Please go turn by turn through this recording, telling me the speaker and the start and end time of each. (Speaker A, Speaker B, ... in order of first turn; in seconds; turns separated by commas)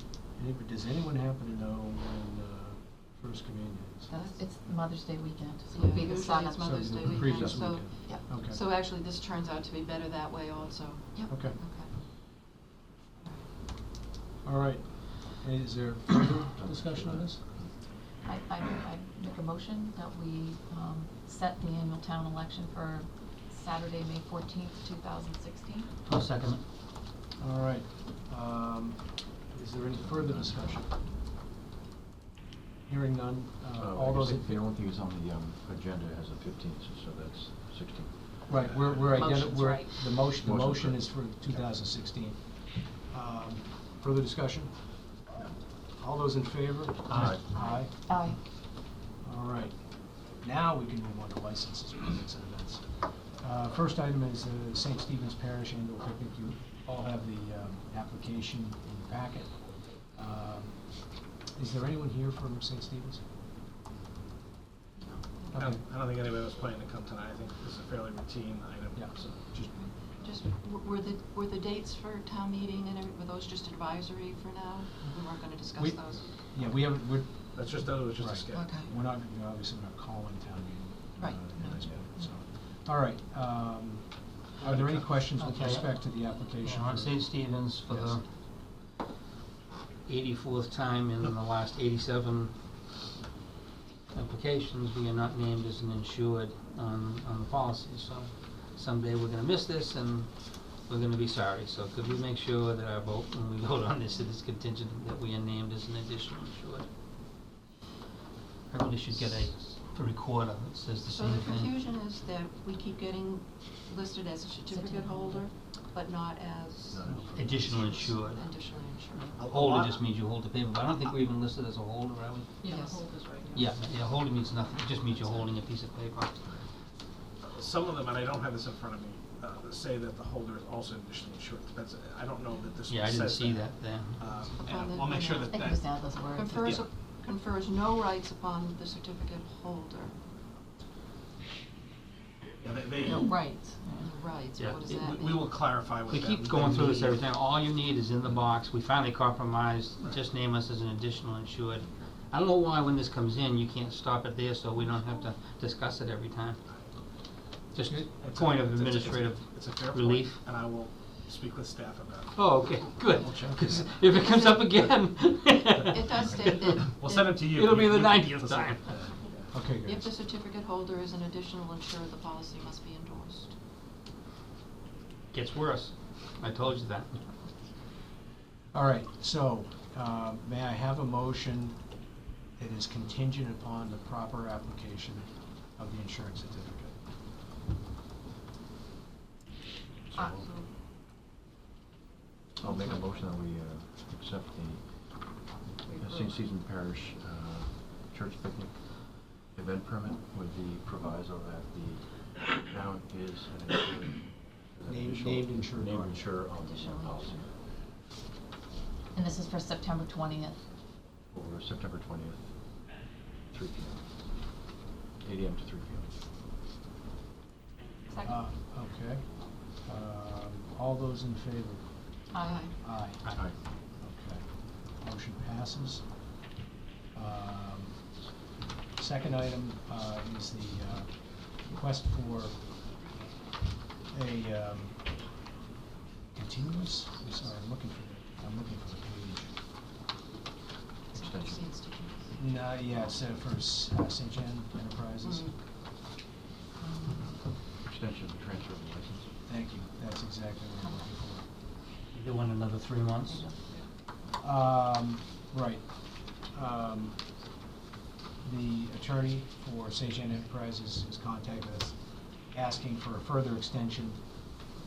Speaker A: 0.3-4.1, Speaker B: 4.1-6.7, Speaker C: 4.1-4.4, Speaker C: 5.7-12.1, Speaker A: 6.6-8.6, Speaker D: 7.2-7.7, Speaker A: 11.3-11.6, Speaker C: 13.2-13.5, Speaker A: 14.4-17.4, Speaker D: 16.6-17.7, Speaker B: 18.2-25.9, Speaker E: 26.1-26.6, Speaker A: 27.4-31.0, Speaker D: 29.9-30.7, Speaker A: 32.9-34.6, Speaker D: 33.8-39.2, Speaker A: 38.5-45.2, Speaker B: 39.1-40.0, Speaker D: 40.3-41.6, Speaker A: 45.8-48.6, Speaker D: 47.1-47.4, Speaker B: 47.4-48.4, Speaker A: 49.1-63.2, Speaker C: 65.0-65.5, Speaker A: 65.5-65.8, Speaker F: 65.5-69.7, Speaker A: 69.0-69.9, Speaker C: 69.7-76.3, Speaker A: 75.8-88.2, Speaker F: 77.5-78.8, Speaker C: 78.5-78.9, Speaker C: 81.2-82.0, Speaker F: 84.6-85.1, Speaker E: 85.3-88.2, Speaker E: 90.0-92.5, Speaker E: 94.1-106.9, Speaker E: 108.7-111.7, Speaker C: 111.1-119.3, Speaker B: 114.7-115.5, Speaker D: 116.9-118.1, Speaker E: 117.3-118.5, Speaker F: 119.3-120.0, Speaker E: 119.5-122.6, Speaker B: 122.6-123.7, Speaker C: 122.6-123.3, Speaker E: 123.5-126.4, Speaker F: 127.4-136.0, Speaker E: 132.9-134.4, Speaker C: 134.6-135.5, Speaker B: 135.5-136.6, Speaker C: 136.3-140.2, Speaker F: 136.6-136.9, Speaker F: 142.6-143.3, Speaker B: 143.1-144.2, Speaker C: 144.0-145.4, Speaker E: 144.6-156.6, Speaker F: 144.9-147.2, Speaker E: 157.7-160.4, Speaker F: 158.2-164.1, Speaker E: 162.3-169.0, Speaker C: 164.1-164.6, Speaker C: 165.9-167.2, Speaker F: 166.7-169.5, Speaker A: 169.5-170.1, Speaker C: 169.8-173.5, Speaker E: 175.3-177.3, Speaker A: 178.7-181.9, Speaker A: 182.6-187.0, Speaker D: 190.1-190.4, Speaker C: 190.1-190.7, Speaker D: 192.6-207.6, Speaker A: 192.6-193.0, Speaker B: 195.9-196.3, Speaker A: 204.8-206.2, Speaker C: 206.6-207.5, Speaker B: 209.1-210.6, Speaker D: 211.3-214.6, Speaker D: 215.2-216.1, Speaker B: 218.1-218.4, Speaker A: 218.2-223.4, Speaker B: 222.3-222.7, Speaker C: 222.4-222.7, Speaker A: 224.0-226.3, Speaker A: 227.1-228.2, Speaker A: 228.9-232.8, Speaker A: 234.1-235.4, Speaker A: 236.3-239.5, Speaker D: 241.1-241.7, Speaker C: 241.1-242.3, Speaker A: 242.3-245.5, Speaker C: 245.2-245.5, Speaker B: 246.8-247.3, Speaker D: 247.8-249.3, Speaker A: 249.4-251.5, Speaker B: 250.8-251.1, Speaker E: 252.1-253.4, Speaker B: 253.3-253.8, Speaker A: 254.4-257.3, Speaker A: 258.4-264.4